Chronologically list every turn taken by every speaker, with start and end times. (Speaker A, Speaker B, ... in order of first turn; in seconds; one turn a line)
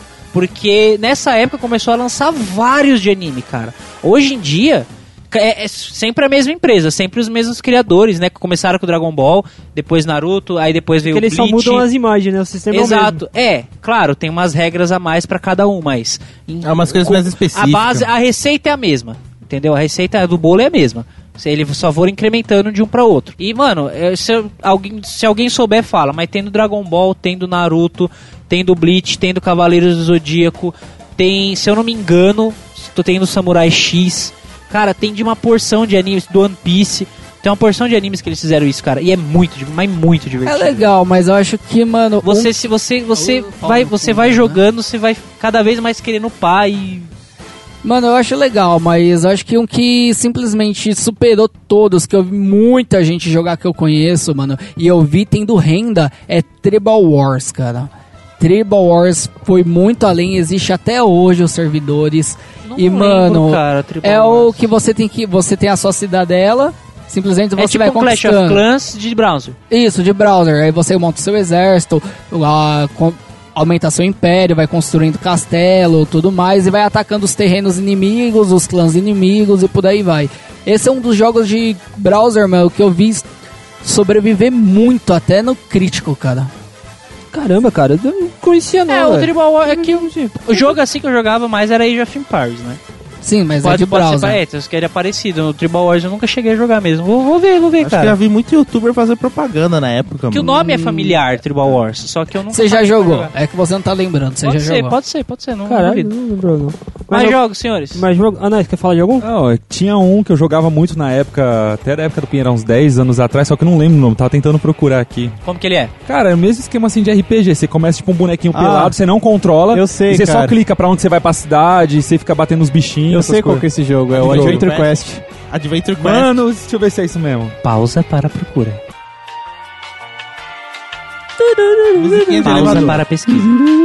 Speaker A: 0.3-11.9
Speaker B: 11.1-13.2
Speaker A: 12.7-40.9
Speaker C: 16.6-18.1
Speaker D: 40.5-42.5
Speaker A: 42.2-47.1
Speaker D: 43.1-44.6
Speaker D: 47.8-68.6
Speaker A: 62.6-64.7
Speaker A: 67.6-69.6
Speaker D: 69.7-83.3
Speaker D: 83.8-86.5
Speaker B: 87.3-90.7
Speaker A: 88.9-92.8
Speaker D: 93.2-94.4
Speaker A: 93.6-98.2
Speaker C: 97.8-100.6
Speaker A: 100.3-103.3
Speaker D: 102.5-105.0
Speaker A: 104.4-106.1
Speaker B: 105.7-107.4
Speaker A: 107.1-108.0
Speaker B: 107.9-109.3
Speaker E: 109.2-115.3
Speaker A: 115.5-115.9
Speaker E: 116.1-123.7
Speaker F: 118.5-119.0
Speaker F: 119.7-120.6
Speaker F: 123.1-125.2
Speaker C: 124.1-125.0
Speaker E: 124.2-124.7
Speaker C: 125.5-126.4
Speaker E: 126.0-127.5
Speaker A: 127.6-128.8
Speaker B: 131.5-132.2
Speaker C: 132.0-133.0
Speaker A: 132.4-133.5